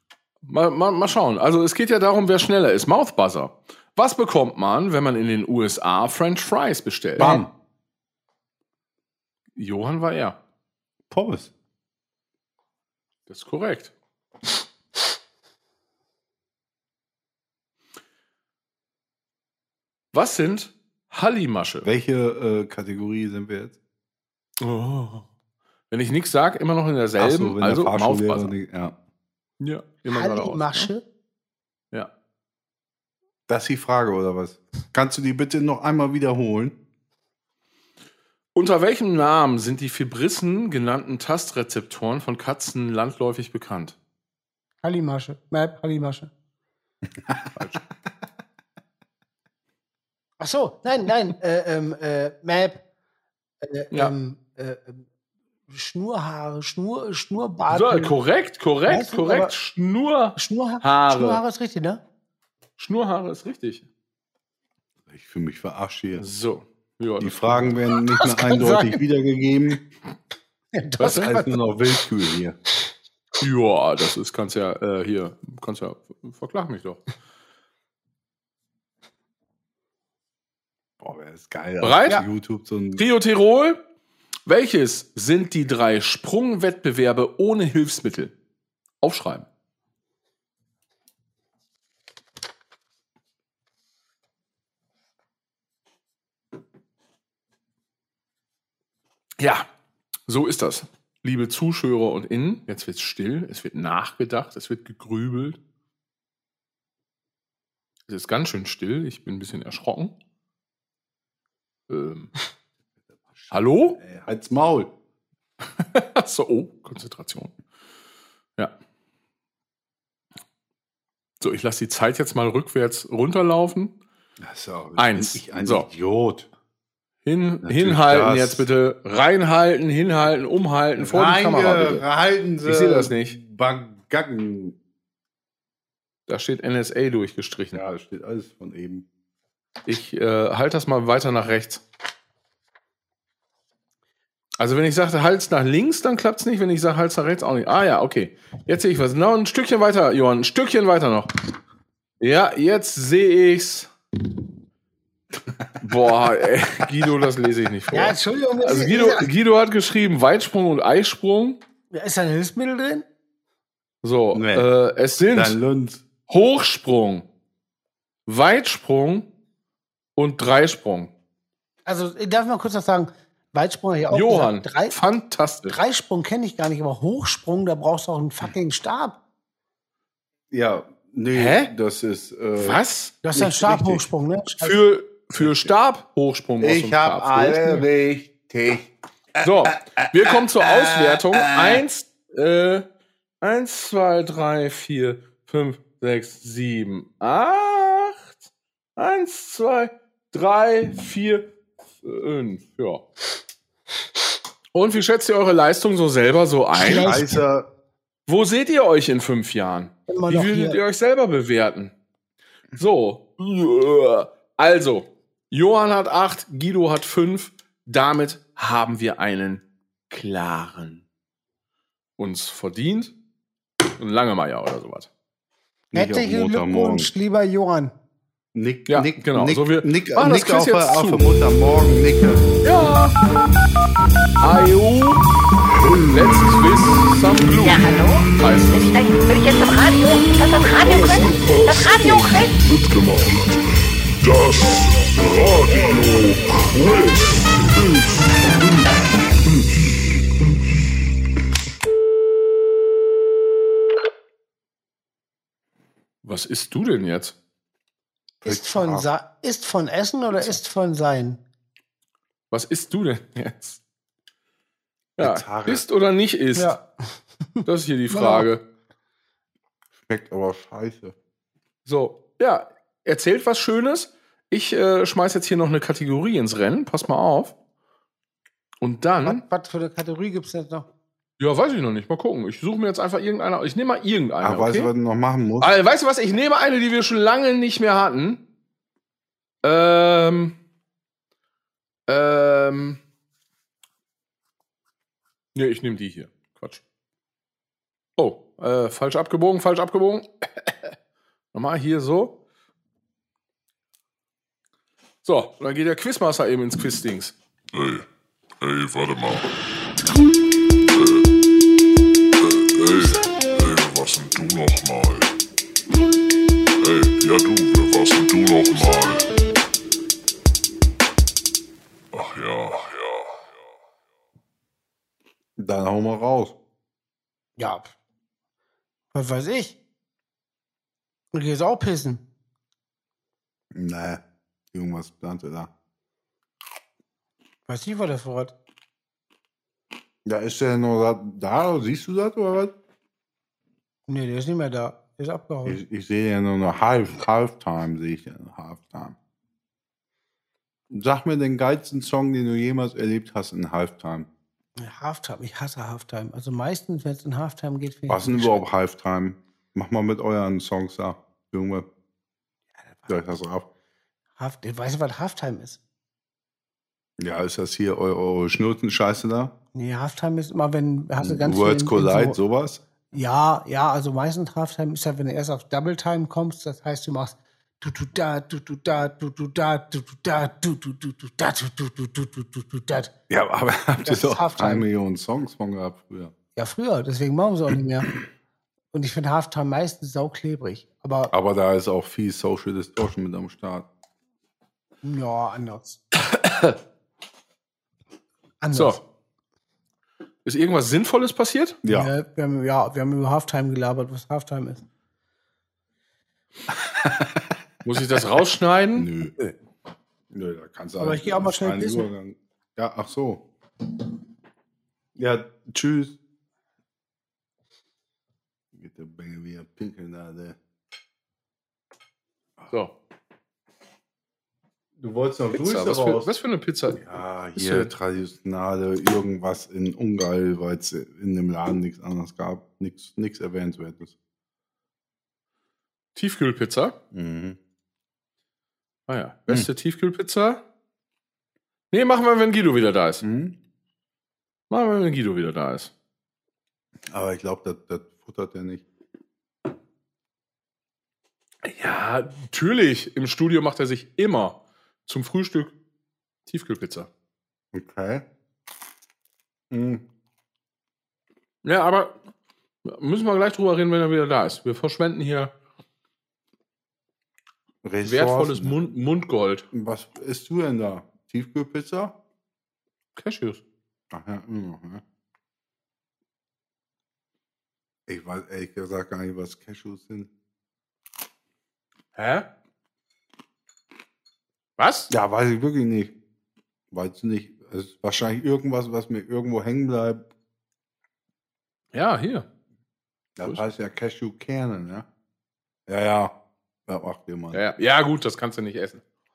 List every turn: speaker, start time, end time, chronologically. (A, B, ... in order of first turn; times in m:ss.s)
0:00.4-0:07.4 A
0:07.2-0:07.4 B
0:07.2-0:07.5 C
0:09.6-0:10.4 A
0:11.1-0:11.5 C
0:13.3-0:13.9 A
0:20.1-0:21.9 A
0:21.8-0:23.8 C
0:24.6-0:25.3 A
0:25.9-0:28.5 A
0:27.2-0:28.9 C
0:29.6-0:30.9 A
0:30.1-0:31.0 B
0:33.5-0:36.8 C
0:38.5-0:44.0 A
0:44.8-0:46.3 B
0:47.2-0:47.5 C
0:47.6-0:47.8 A
0:50.4-0:52.8 B
0:53.6-0:55.0 B
0:55.7-0:58.1 B
0:57.7-1:01.4 A
0:58.9-0:59.5 B
1:00.4-1:02.0 B
1:02.8-1:03.8 A
1:05.1-1:06.2 C
1:06.2-1:07.8 A
1:07.2-1:09.8 C
1:08.2-1:09.0 B
1:10.7-1:11.6 B
1:11.0-1:11.3 A
1:11.0-1:12.6 C
1:13.4-1:17.1 A
1:21.0-1:23.0 C
1:21.8-1:22.2 A
1:23.0-1:23.8 A
1:24.4-1:28.3 A
1:29.0-1:29.4 A
1:39.4-1:39.6 A
1:40.3-1:45.6 A
1:48.1-1:50.1 A
1:51.9-1:52.3 A
1:53.2-1:54.9 C
1:53.5-1:54.0 A
1:55.8-1:57.5 A
2:01.4-2:03.9 A
2:04.4-2:06.5 C
2:05.0-2:05.8 A
2:07.2-2:12.0 A
2:07.6-2:08.7 C
2:11.0-2:14.8 C
2:12.6-2:13.4 A
2:16.3-2:17.8 A
2:17.7-2:19.0 C
2:19.8-2:21.8 A
2:24.6-2:31.3 A
2:32.2-2:33.9 A
2:35.8-2:41.6 A
2:37.9-2:39.3 B
2:41.9-2:43.0 B
2:44.0-2:45.6 A
2:44.3-2:46.0 C
2:46.3-2:47.2 A
2:48.3-2:49.3 A
2:50.2-2:51.1 A
2:51.8-2:55.0 B
2:54.1-2:55.8 A
2:55.7-2:59.2 B
3:00.5-3:02.8 C
3:01.3-3:01.7 A
3:02.6-3:03.2 A
3:03.2-3:04.8 B
3:03.3-3:04.0 C
3:04.6-3:07.8 A
3:05.4-3:05.7 C
3:06.6-3:11.8 C
3:09.4-3:12.8 A
3:13.4-3:18.4 A
3:19.0-3:21.5 A
3:22.0-3:23.0 A
3:24.7-3:27.2 A
3:26.8-3:27.4 B
3:26.8-3:27.6 C
3:28.3-3:31.9 A
3:30.1-3:30.8 B
3:32.7-3:41.0 A
3:42.2-3:43.1 A
3:44.0-3:45.1 A
3:45.9-3:47.1 C
3:45.9-3:47.9 B
3:48.5-3:52.4 C
3:48.9-3:51.2 A
3:52.6-3:53.1 A
3:54.4-3:55.2 A
3:55.7-3:56.3 D
3:56.1-3:57.8 A
3:57.6-4:02.5 E
3:58.4-3:58.9 A
4:00.8-4:08.9 D
4:16.2-4:17.3 A
4:18.4-4:19.1 C
4:18.4-4:21.4 B
4:22.5-4:23.8 A
4:25.2-4:26.8 A
4:25.2-4:25.8 C
4:26.6-4:28.5 B
4:27.6-4:28.6 A
4:30.0-4:31.1 C
4:31.8-4:37.5 A
4:38.8-4:39.4 A
4:39.2-4:40.9 B
4:41.4-4:44.9 A
4:44.4-4:45.7 C
4:45.6-4:48.4 A
4:49.6-4:50.5 A
4:52.1-4:53.0 A
4:55.5-4:56.8 A
4:58.2-5:00.9 A
5:01.5-5:02.3 A
5:05.2-5:07.3 A
5:07.7-5:08.0 D
5:08.6-5:09.5 D
5:10.9-5:11.3 D
5:12.4-5:15.3 D
5:16.8-5:19.3 D
5:22.1-5:23.6 D
5:25.6-5:26.5 C
5:27.6-5:27.9 B
5:29.1-5:29.8 B
5:31.3-5:32.2 B
5:33.7-5:35.7 C
5:37.7-5:38.5 B
5:40.2-5:42.7 C
5:44.1-5:45.8 B
5:45.6-5:49.2 C
5:50.9-5:54.3 C
5:54.8-5:58.6 B
5:58.1-6:01.9 C
6:02.9-6:03.2 B
6:03.1-6:03.7 C
6:04.4-6:05.8 B
6:07.2-6:09.5 C
6:09.7-6:12.4 B
6:11.2-6:12.8 C
6:13.1-6:23.1 B
6:23.3-6:26.3 C
6:24.0-6:24.8 B
6:26.5-6:28.1 B
6:28.9-6:31.3 B
6:31.3-6:33.9 C
6:35.0-6:36.0 B
6:36.2-6:36.8 A
6:38.6-6:39.0 B
6:38.7-6:39.0 A
6:40.4-6:41.8 A
6:41.8-6:42.1 C
6:41.9-6:44.8 B
6:46.7-6:47.5 C
6:47.8-6:49.1 A
6:49.0-6:49.5 C
6:50.3-6:53.4 C
6:51.0-6:52.1 B
6:55.2-6:56.2 C
6:58.7-7:00.6 C
7:05.0-7:06.3 C
7:05.5-7:07.0 A
7:07.0-7:14.1 C
7:07.5-7:07.9 A
7:16.1-7:16.9 A
7:17.1-7:17.6 C
7:19.1-7:20.6 A
7:21.9-7:23.2 A
7:23.2-7:23.5 C
7:24.7-7:25.9 A
7:27.1-7:28.8 C
7:31.6-7:35.7 A
7:36.5-7:37.1 A
7:37.7-7:38.2 C
7:39.7-7:40.0 C
7:41.6-7:42.1 A
7:42.8-7:45.5 A
7:47.8-7:48.8 C
7:48.0-7:49.6 A
7:49.7-7:52.1 C
7:53.2-7:53.6 A
7:54.1-7:55.0 C
7:58.1-8:00.3 C
8:02.1-8:02.4 A
8:04.8-8:05.1 A
8:05.1-8:06.1 C
8:06.9-8:10.2 C
8:11.9-8:12.4 A
8:13.4-8:15.0 C
8:15.9-8:16.3 C
8:16.9-8:17.6 C
8:17.5-8:19.0 A